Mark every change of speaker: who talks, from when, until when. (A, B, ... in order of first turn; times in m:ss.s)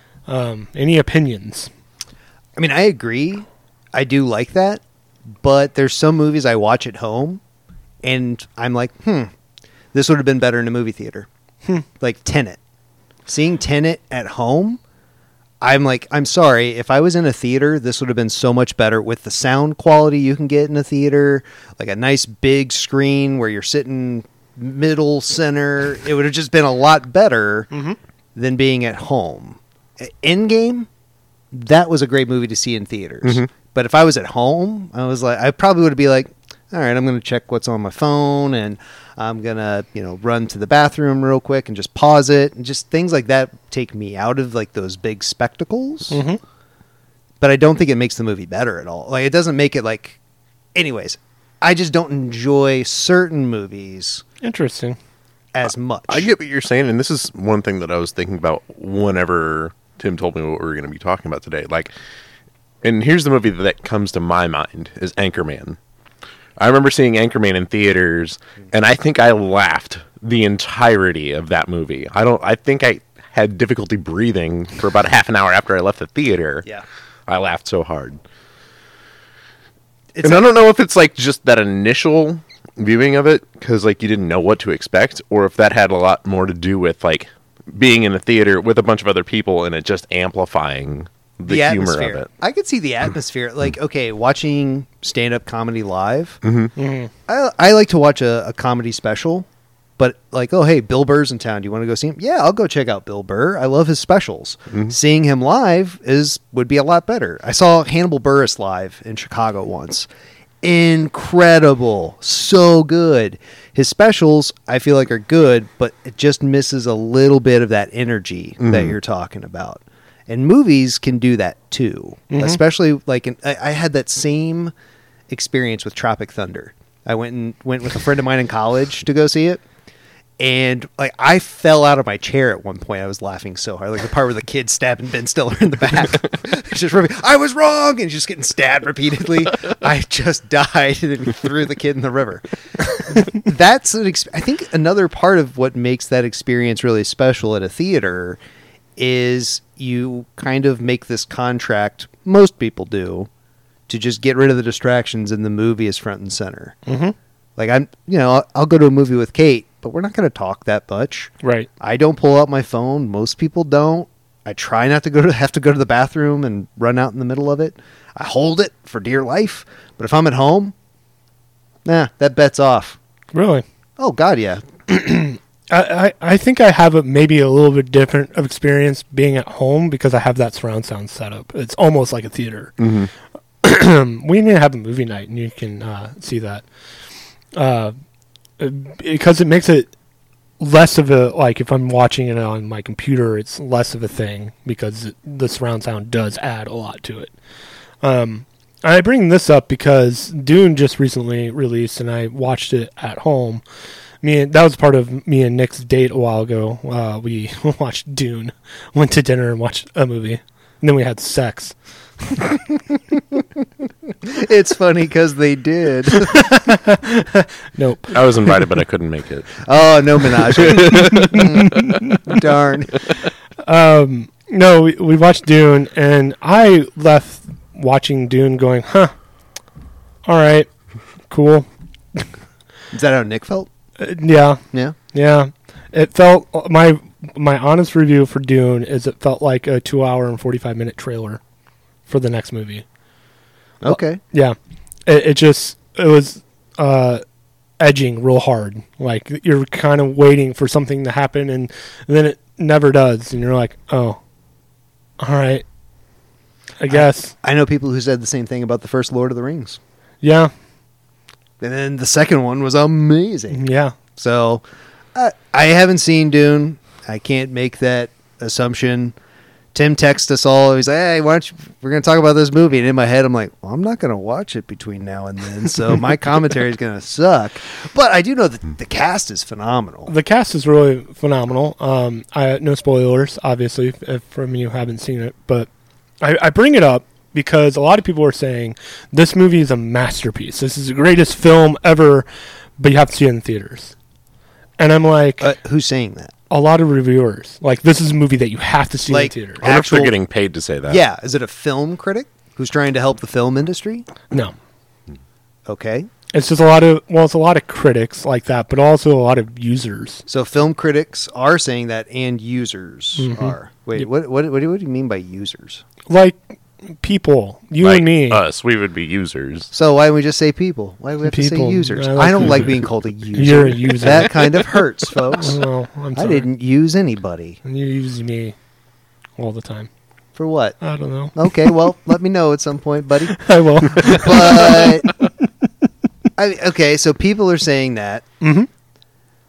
0:00.3-0:01.7 A
0:02.6-0:04.8 B
0:05.4-0:07.4 B
0:08.0-0:09.3 B
0:09.9-0:11.3 B
0:12.0-0:12.6 B
0:13.3-0:14.8 B
0:15.6-0:27.7 B
0:27.7-0:28.0 A
0:28.4-0:30.9 B
0:31.5-0:46.2 B
0:33.2-0:33.5 C
0:46.1-0:46.4 A
0:47.4-0:50.2 B
0:50.8-0:54.2 B
0:54.4-0:55.0 A
0:55.5-0:56.3 B
0:56.1-1:01.9 C
1:02.8-1:05.8 C
1:06.6-1:16.7 C
1:17.3-1:18.2 C
1:20.1-1:20.5 B
1:20.2-1:32.3 C
1:31.5-1:36.4 B
1:36.4-1:36.7 C
1:36.8-1:37.1 A
1:37.3-1:39.5 B
1:40.0-1:50.1 B
1:50.6-2:04.7 B
1:58.6-1:59.0 C
2:02.3-2:02.6 A
2:05.3-2:09.6 B
2:10.4-2:28.4 B
2:29.0-2:33.3 B
2:33.9-2:36.8 B
2:36.9-2:37.2 A
2:37.6-2:50.7 B
2:41.4-2:41.7 A
2:51.8-2:53.0 B
2:53.3-2:53.6 A
2:54.0-2:54.6 B
2:54.9-3:02.8 A
3:02.8-3:03.1 C
3:03.6-3:06.6 A
3:07.5-3:07.9 A
3:08.6-3:09.9 A
3:10.6-3:17.3 A
3:18.0-3:23.6 A
3:24.2-3:32.6 A
3:34.2-3:36.5 B
3:36.2-3:38.7 A
3:38.1-3:39.6 C
3:39.6-3:43.0 B
3:40.5-3:41.8 C
3:40.8-3:42.4 A
3:43.6-3:49.1 A
3:50.3-3:50.7 A
3:51.3-3:52.3 A
3:52.9-3:53.7 B
3:54.0-4:01.4 A
4:02.1-4:02.8 A
4:03.8-4:04.2 B
4:03.9-4:04.6 A
4:05.1-4:07.2 A
4:07.8-4:14.2 A
4:15.2-4:15.6 A
4:16.8-4:17.3 A
4:16.9-4:19.8 B
4:20.2-4:20.5 A
4:21.6-4:23.6 B
4:23.5-4:24.0 A
4:24.2-4:24.6 B
4:25.2-4:29.2 B
4:29.7-4:40.1 B
4:40.1-4:45.7 A
4:46.2-4:52.3 A
4:52.8-4:54.0 A
4:54.8-4:55.5 A
4:55.4-4:56.3 B
4:56.5-4:59.7 A
4:59.1-5:00.1 B
4:59.6-5:01.0 C
5:00.9-5:04.1 B
5:05.7-5:06.1 B
5:06.3-5:10.2 A
5:10.3-5:15.8 B
5:13.2-5:13.6 A
5:16.1-5:16.4 A
5:17.0-5:18.4 A
5:17.8-5:19.7 C
5:19.7-5:25.6 B
5:21.2-5:24.4 A
5:25.3-5:26.5 A
5:26.2-5:27.6 B
5:27.6-5:28.6 A
5:29.4-5:29.9 A
5:30.4-5:30.8 B
5:30.8-5:31.9 A
5:31.4-5:35.1 B
5:33.3-5:35.3 A
5:36.4-5:38.3 B
5:38.4-5:38.7 A